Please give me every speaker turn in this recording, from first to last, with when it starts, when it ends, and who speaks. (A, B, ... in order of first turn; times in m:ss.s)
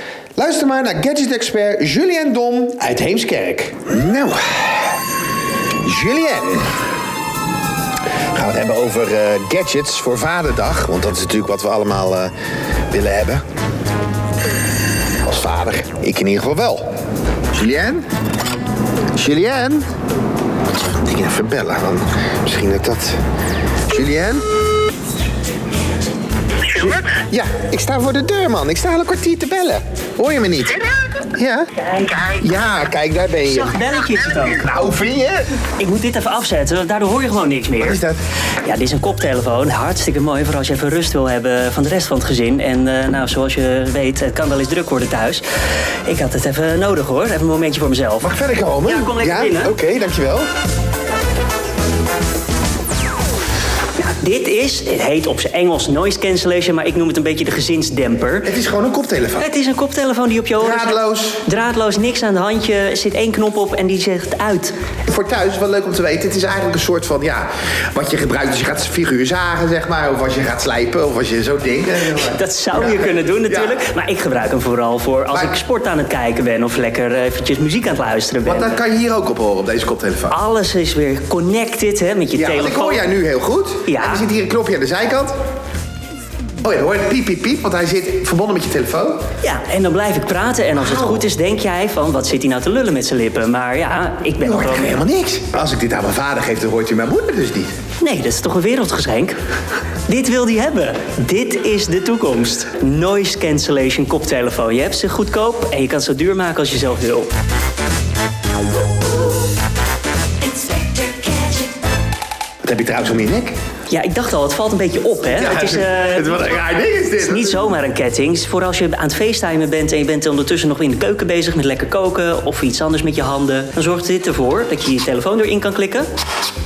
0:00.4-0:05.0 A
0:05.8-0:06.7 A
0:08.3-0:12.3 A
0:12.9-0:13.4 A
0:15.2-0:16.8 A
0:17.5-0:18.0 A
0:19.2-0:19.9 A
0:21.0-0:23.2 A
0:23.9-0:24.4 A
0:26.7-0:33.8 A
0:32.0-0:32.3 B
0:33.5-0:34.7 B
0:34.5-0:35.5 A
0:35.8-0:38.0 B
0:37.8-0:38.2 A
0:38.6-0:45.4 B
0:46.1-0:48.3 B
0:48.2-0:50.5 A
0:48.9-0:49.8 B
0:54.0-0:58.5 B
0:58.4-0:59.5 A
0:59.4-1:04.7 B
1:00.6-1:01.4 A
1:05.1-1:13.8 A
1:12.2-1:18.8 B
1:18.4-1:20.4 A
1:20.3-1:23.1 B
1:22.4-1:25.3 A
1:23.9-1:24.2 B
1:26.6-1:29.2 A
1:29.4-1:35.0 B
1:30.8-1:31.2 A
1:34.4-1:37.7 A
1:38.0-1:39.4 B
1:40.1-1:47.3 B
1:52.6-1:53.6 A
1:53.9-1:56.6 B
1:55.3-1:57.8 A
1:57.2-2:06.1 B